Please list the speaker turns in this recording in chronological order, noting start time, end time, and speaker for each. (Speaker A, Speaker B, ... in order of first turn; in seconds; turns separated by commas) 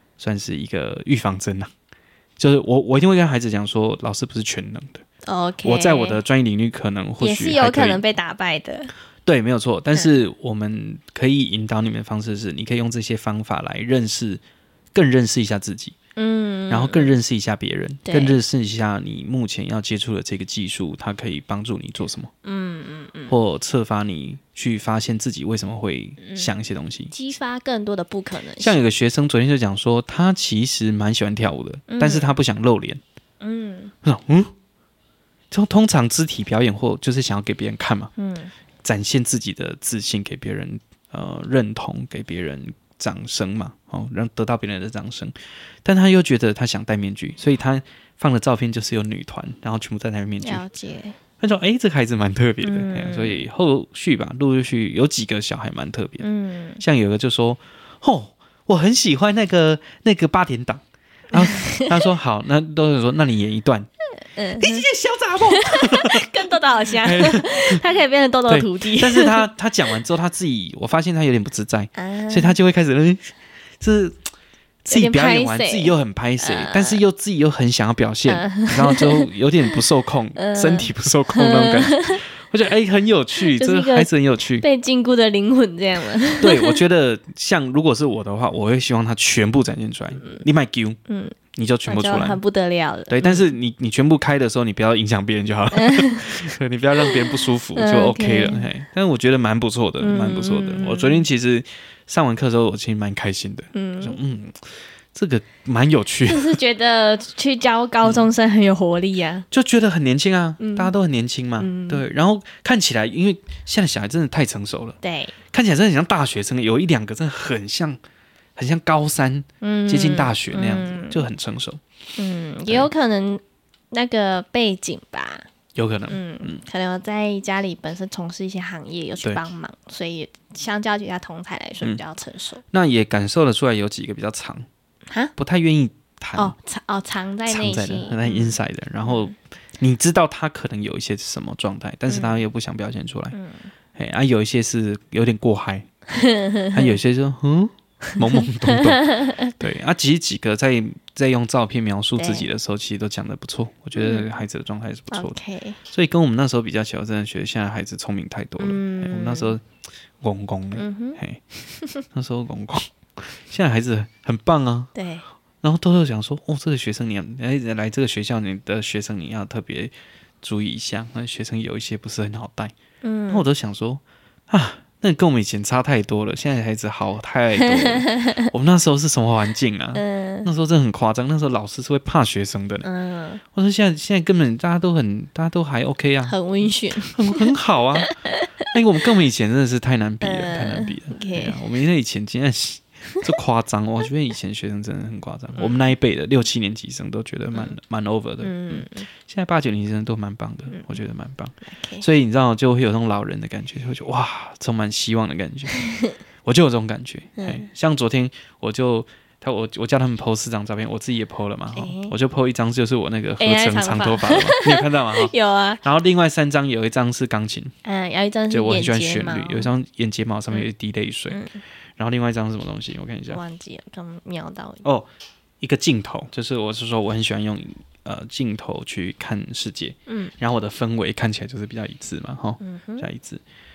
Speaker A: 0.2-1.7, Speaker A: 2.4-5.0, Speaker B: 5.2-6.2, Speaker A: 5.6-8.0, Speaker B: 7.2-8.9, Speaker A: 9.2-14.4, Speaker A: 14.9-15.9, Speaker B: 16.1-17.1, Speaker A: 16.7-22.3, Speaker B: 18.0-18.4, Speaker B: 22.4-23.4, Speaker A: 23.3-27.1, Speaker B: 26.2-26.5, Speaker B: 27.1-28.8, Speaker A: 28.6-33.0, Speaker B: 31.9-32.3, Speaker B: 33.4-33.9, Speaker A: 34.0-34.5, Speaker A: 35.5-38.1, Speaker B: 38.2-38.5, Speaker A: 38.8-45.3, Speaker A: 45.8-50.6, Speaker B: 50.4-51.2, Speaker A: 51.4-56.2, Speaker B: 52.6-53.4, Speaker B: 56.2-56.8, Speaker A: 56.8-63.9, Speaker B: 61.3-62.0, Speaker B: 64.2-64.9, Speaker A: 64.6-66.3, Speaker B: 65.4-69.5, Speaker A: 67.0-67.8, Speaker A: 68.5-74.2, Speaker B: 71.9-72.6, Speaker A: 74.8-84.6, Speaker B: 74.9-77.0, Speaker B: 78.3-79.8, Speaker B: 80.3-82.2, Speaker B: 83.4-86.8, Speaker A: 86.4-91.0, Speaker B: 91.1-91.3, Speaker A: 91.5-92.4, Speaker B: 91.9-93.5, Speaker A: 93.1-104.5, Speaker B: 95.7-96.4, Speaker B: 97.0-98.7, Speaker B: 100.0-101.2, Speaker B: 103.7-104.2, Speaker A: 105.1-106.6, Speaker B: 106.3-109.5, Speaker A: 108.0-108.3, Speaker A: 109.5-115.0, Speaker B: 110.6-110.9, Speaker B: 111.6-112.0, Speaker B: 115.0-115.3, Speaker A: 115.5-118.0, Speaker A: 118.5-121.8, Speaker B: 119.6-121.2, Speaker B: 122.2-125.5, Speaker A: 125.7-126.6, Speaker B: 126.1-132.6, Speaker A: 132.7-134.7, Speaker A: 135.4-136.5, Speaker B: 136.3-139.3, Speaker A: 137.5-143.3, Speaker B: 142.1-142.4, Speaker B: 143.3-143.7, Speaker A: 143.9-145.9, Speaker B: 146.1-147.0, Speaker A: 146.7-155.3, Speaker B: 148.0-149.5, Speaker B: 152.2-152.5, Speaker B: 153.9-154.3, Speaker B: 155.1-155.8, Speaker A: 155.9-159.6, Speaker B: 158.6-159.6, Speaker A: 160.2-161.4, Speaker B: 160.8-161.2, Speaker A: 162.1-164.9, Speaker B: 164.9-165.2, Speaker A: 165.6-172.7, Speaker B: 173.0-173.5, Speaker A: 173.3-182.9, Speaker B: 177.6-178.5, Speaker B: 179.9-180.5, Speaker B: 182.8-183.4, Speaker A: 183.5-186.4, Speaker B: 186.3-188.7, Speaker A: 187.0-188.2, Speaker A: 188.7-205.8, Speaker B: 190.2-191.7, Speaker B: 195.6-195.8, Speaker B: 198.4-199.1, Speaker B: 200.7-201.0, Speaker B: 201.6-202.1, Speaker B: 205.7-206.2, Speaker A: 206.4-217.7, Speaker B: 207.4-207.6, Speaker B: 211.7-212.1, Speaker B: 213.4-215.8, Speaker B: 217.8-219.7, Speaker A: 218.5-221.4, Speaker B: 221.3-221.6, Speaker A: 222.0-223.4, Speaker B: 223.3-224.8, Speaker A: 224.8-225.1, Speaker A: 225.6-233.4, Speaker B: 230.1-230.3, Speaker B: 232.6-233.1